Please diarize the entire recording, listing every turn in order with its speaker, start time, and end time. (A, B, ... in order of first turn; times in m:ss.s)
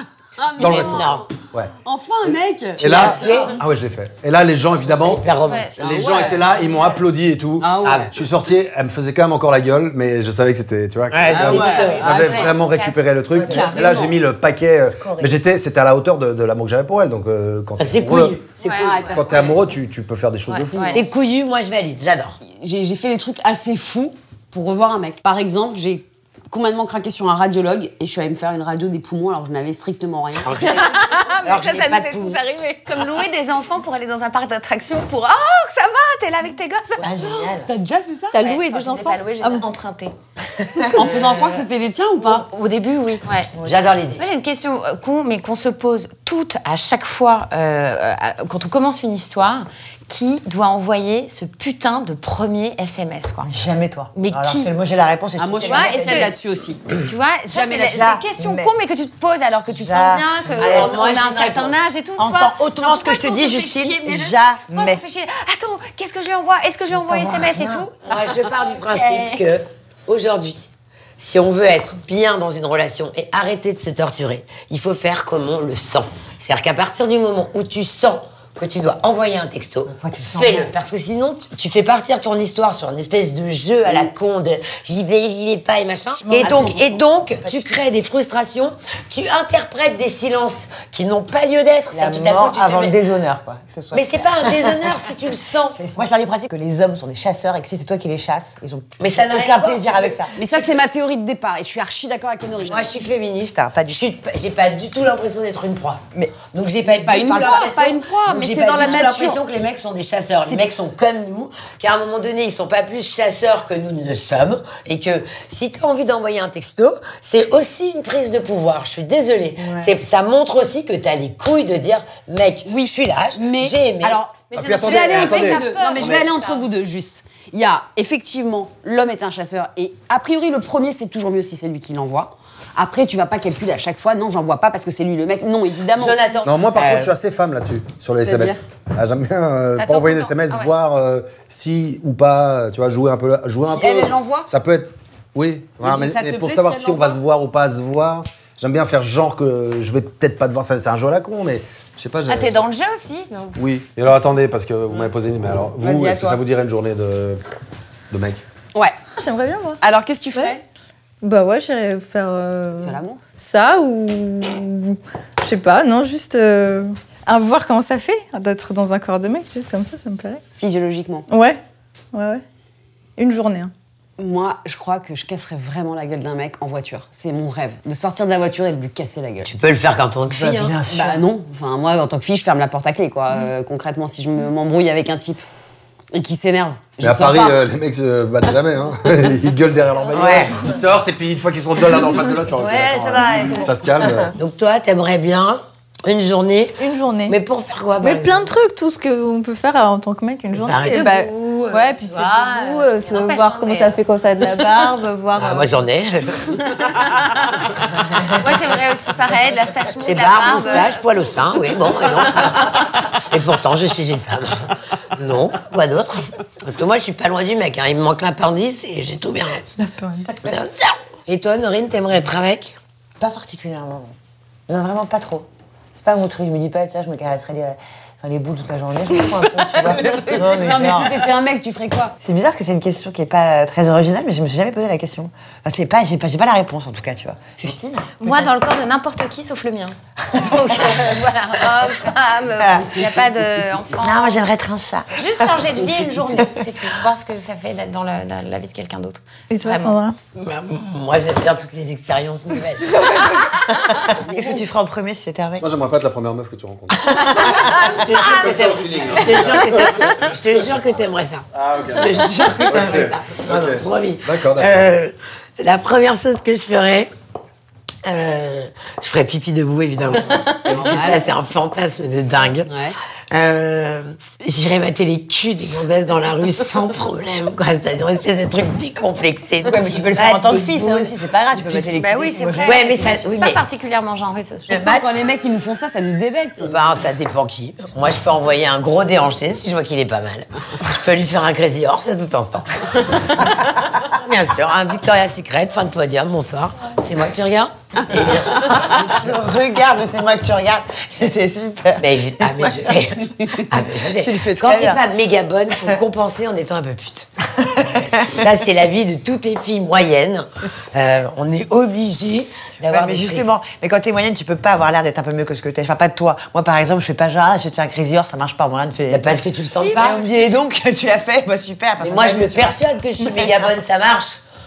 0:00.4-0:01.3 A
0:00.6-0:01.7 B
0:00.6-0:01.3 C
0:01.8-0:03.2 A
0:02.8-0:03.6 C
0:02.8-0:18.4 B
0:04.8-0:06.1 C
0:05.4-0:05.8 D
0:05.8-0:06.7 A
0:07.6-0:08.1 A
0:07.8-0:08.1 C
0:11.1-0:12.5 C
0:11.3-0:12.2 A
0:11.5-0:13.1 D
0:13.5-0:14.2 A
0:17.8-0:18.4 C
0:18.6-0:19.2 D
0:18.6-0:19.6 A
0:19.1-0:20.9 B
0:20.5-0:21.0 D
0:20.8-0:21.0 A
0:20.9-0:22.4 C
0:22.4-0:30.8 A
0:30.4-0:32.4 C
0:30.6-0:37.1 D
0:37.0-0:37.7 E
0:37.2-0:38.6 A
0:38.3-0:39.7 F
0:38.4-0:40.1 D
0:40.7-0:41.1 E
0:40.9-0:42.5 A
0:41.0-0:41.6 D
0:42.2-0:43.5 D
0:43.5-0:43.9 E
0:43.6-0:44.2 C
0:44.2-0:53.5 D
0:53.5-0:56.3 E
0:54.2-0:54.7 D
0:55.4-0:56.8 A
0:55.6-0:56.3 D
0:57.0-1:08.0 D
0:57.6-0:58.7 E
0:59.7-1:01.0 E
1:00.6-1:01.9 C
1:02.2-1:05.0 E
1:07.0-1:07.9 E
1:08.1-1:33.0 C
1:08.7-1:09.5 D
1:19.9-1:20.7 E
1:26.3-1:27.8 E
1:31.9-1:35.1 E
1:33.9-1:35.8 C
1:35.8-1:40.4 E
1:39.0-1:40.2 C
1:40.4-1:42.9 A
1:42.6-2:04.2 C
1:43.4-1:44.0 E
1:46.9-1:49.4 A
1:48.8-1:49.1 E
1:59.6-2:00.0 E
2:03.4-2:16.2 A
2:04.5-2:06.6 D
2:04.5-2:06.3 B
2:16.0-2:17.1 C
2:16.4-2:32.6 B
2:18.2-2:18.6 A
2:19.8-2:20.7 D
2:23.6-2:24.5 A
2:25.8-2:27.2 A
2:32.3-2:33.6 D
2:33.6-2:37.4 B
2:35.8-2:36.4 A
2:38.1-2:38.4 B
2:39.1-2:39.8 F
2:39.8-2:40.6 A
2:41.2-2:50.4 F
2:42.8-2:43.2 A
2:50.6-2:51.3 A
2:51.3-2:51.6 F
2:52.1-2:52.4 F
2:53.2-2:53.7 F
2:54.2-2:59.5 A
2:59.4-3:00.8 C
3:00.3-3:01.2 E
3:00.9-3:05.4 A
3:06.1-3:07.6 A
3:07.0-3:14.3 B
3:10.1-3:10.6 C
3:12.6-3:14.3 E
3:14.4-3:18.5 C
3:16.8-3:17.4 F
3:18.0-3:25.6 F
3:20.6-3:21.1 C
3:20.7-3:24.0 D
3:24.6-3:24.9 D
3:25.4-3:26.6 C
3:26.7-3:27.6 D
3:28.3-3:31.0 D
3:30.0-3:39.7 C
3:32.4-3:32.8 D
3:39.8-3:40.4 F
3:40.3-3:42.8 C
3:43.2-3:44.2 E
3:44.7-3:51.2 E
3:49.8-3:52.2 A
3:52.2-3:58.2 E
3:58.2-4:04.4 D
4:00.4-4:01.0 E
4:02.6-4:02.9 E
4:04.0-4:05.7 E
4:05.1-4:10.0 D
4:09.5-4:10.2 F
4:10.4-4:13.2 C
4:13.7-4:15.6 E
4:15.6-4:20.3 B
4:17.1-4:27.1 C
4:21.5-4:24.8 B
4:28.0-4:32.7 C
4:30.7-4:31.0 B
4:30.8-4:31.3 A
4:32.7-4:33.0 A
4:33.3-4:41.1 C
4:39.6-4:43.2 E
4:42.0-4:44.8 D
4:42.6-4:43.6 C
4:44.7-4:45.0 C
4:44.7-4:46.8 A
4:46.6-4:59.3 C
4:58.1-5:03.0 E
5:02.0-5:13.5 C
5:04.1-5:05.0 E
5:07.8-5:08.4 E
5:12.9-5:22.8 E
5:19.1-5:20.3 C
5:19.8-5:20.2 D
5:22.0-5:24.4 C